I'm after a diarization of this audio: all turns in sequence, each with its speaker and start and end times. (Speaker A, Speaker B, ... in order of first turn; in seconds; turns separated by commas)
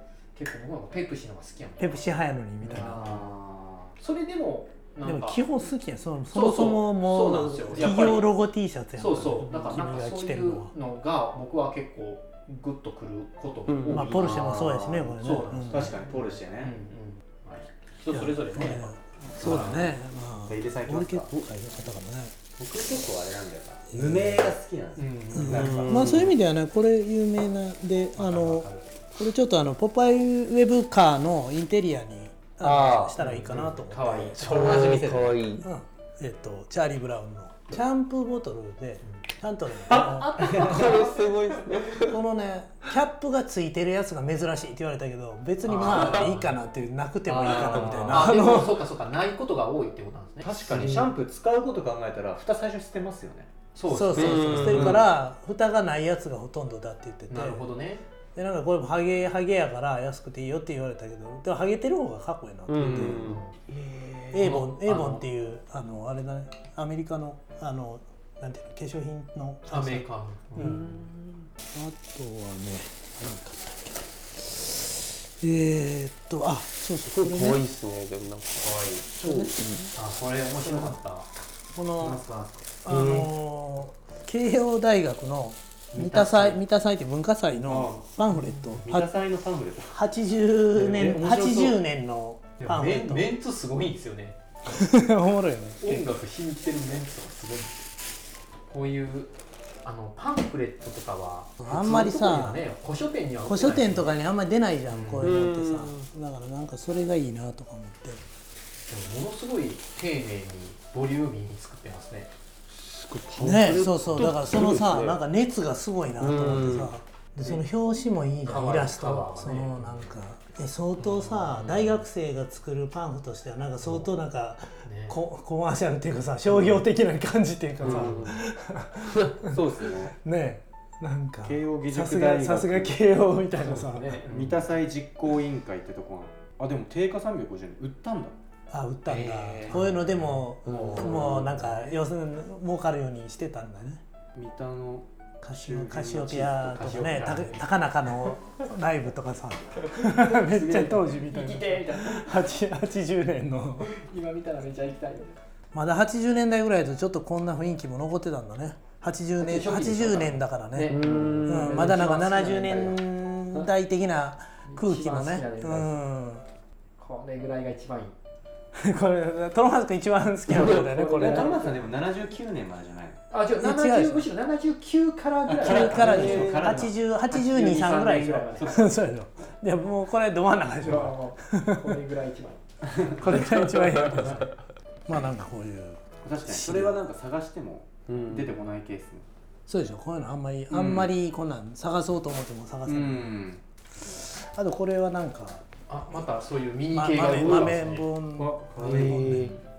Speaker A: 0.3-3.4, Speaker B: 1.8-3.1, Speaker C: 2.7-3.9, Speaker A: 4.0-5.5, Speaker B: 5.0-10.7, Speaker A: 6.3-8.3, Speaker A: 9.0-19.9, Speaker D: 13.7-14.3, Speaker B: 13.9-16.0, Speaker C: 14.2-16.8, Speaker B: 18.1-22.4, Speaker C: 19.4-19.9, Speaker C: 20.4-21.3, Speaker C: 22.6-26.0, Speaker B: 23.9-24.6, Speaker A: 25.0-26.0, Speaker B: 25.3-34.3, Speaker D: 25.5-26.3, Speaker A: 28.2-28.9, Speaker D: 32.6-33.1, Speaker A: 33.2-35.2, Speaker C: 34.0-35.4, Speaker D: 34.4-35.7, Speaker B: 35.6-41.0, Speaker A: 39.8-41.1, Speaker C: 40.4-41.1, Speaker D: 40.4-42.2, Speaker B: 42.0-48.9, Speaker A: 45.6-46.5, Speaker D: 45.9-46.2, Speaker C: 47.2-48.4, Speaker A: 48.0-51.1, Speaker C: 50.4-53.5, Speaker A: 53.7-55.0, Speaker B: 53.9-57.7, Speaker D: 54.1-55.0, Speaker C: 54.5-55.0, Speaker A: 57.3-58.0, Speaker B: 58.4-63.3, Speaker D: 62.7-64.6, Speaker C: 62.8-63.2, Speaker A: 62.9-63.6, Speaker B: 64.3-70.9, Speaker A: 64.4-65.2, Speaker A: 69.7-70.9, Speaker D: 70.6-71.5, Speaker B: 71.7-77.7, Speaker D: 77.1-79.9, Speaker A: 78.6-81.3, Speaker C: 80.7-80.9, Speaker B: 81.7-82.2, Speaker C: 82.0-82.5, Speaker B: 82.8-89.1, Speaker D: 82.9-83.3, Speaker A: 85.9-86.6, Speaker C: 87.7-88.1, Speaker C: 88.8-90.0, Speaker B: 89.9-93.3, Speaker C: 90.7-91.8, Speaker A: 92.6-94.4, Speaker B: 94.7-96.2, Speaker A: 95.8-97.8, Speaker A: 98.7-99.3, Speaker A: 99.8-104.1, Speaker B: 101.6-102.6, Speaker B: 103.4-108.2, Speaker A: 104.9-105.3, Speaker D: 105.2-106.0, Speaker A: 108.9-112.3, Speaker D: 112.7-115.2, Speaker B: 113.4-134.2, Speaker D: 116.2-117.0, Speaker A: 118.5-120.2, Speaker A: 121.0-122.0, Speaker A: 124.8-125.2, Speaker C: 127.8-128.3, Speaker A: 127.8-128.4, Speaker C: 129.4-130.2, Speaker C: 131.4-133.0, Speaker A: 133.6-134.8, Speaker C: 134.3-138.4, Speaker B: 138.7-144.0, Speaker A: 139.1-141.5, Speaker C: 140.7-141.5, Speaker D: 140.8-141.3, Speaker C: 144.3-147.3, Speaker B: 145.4-153.9, Speaker A: 146.8-147.7, Speaker A: 150.1-152.5, Speaker A: 153.9-155.4, Speaker B: 155.7-166.4, Speaker A: 159.4-163.7, Speaker D: 160.9-161.9, Speaker A: 164.6-166.0, Speaker A: 167.0-168.2, Speaker B: 168.8-171.6, Speaker C: 170.6-173.2, Speaker A: 170.7-171.9, Speaker A: 173.3-178.9, Speaker B: 173.6-174.3, Speaker B: 175.6-182.0, Speaker C: 175.6-176.9, Speaker C: 178.6-179.0, Speaker A: 180.8-182.6, Speaker C: 182.9-183.3, Speaker A: 183.2-184.5, Speaker B: 183.2-184.5, Speaker B: 185.1-187.0, Speaker C: 186.2-189.2, Speaker D: 188.1-188.5, Speaker B: 189.7-193.4, Speaker C: 190.7-191.1, Speaker C: 192.8-193.6, Speaker B: 194.0-195.6, Speaker A: 195.9-199.3, Speaker B: 196.9-199.5, Speaker D: 197.4-197.6, Speaker C: 198.8-199.6, Speaker D: 198.8-199.5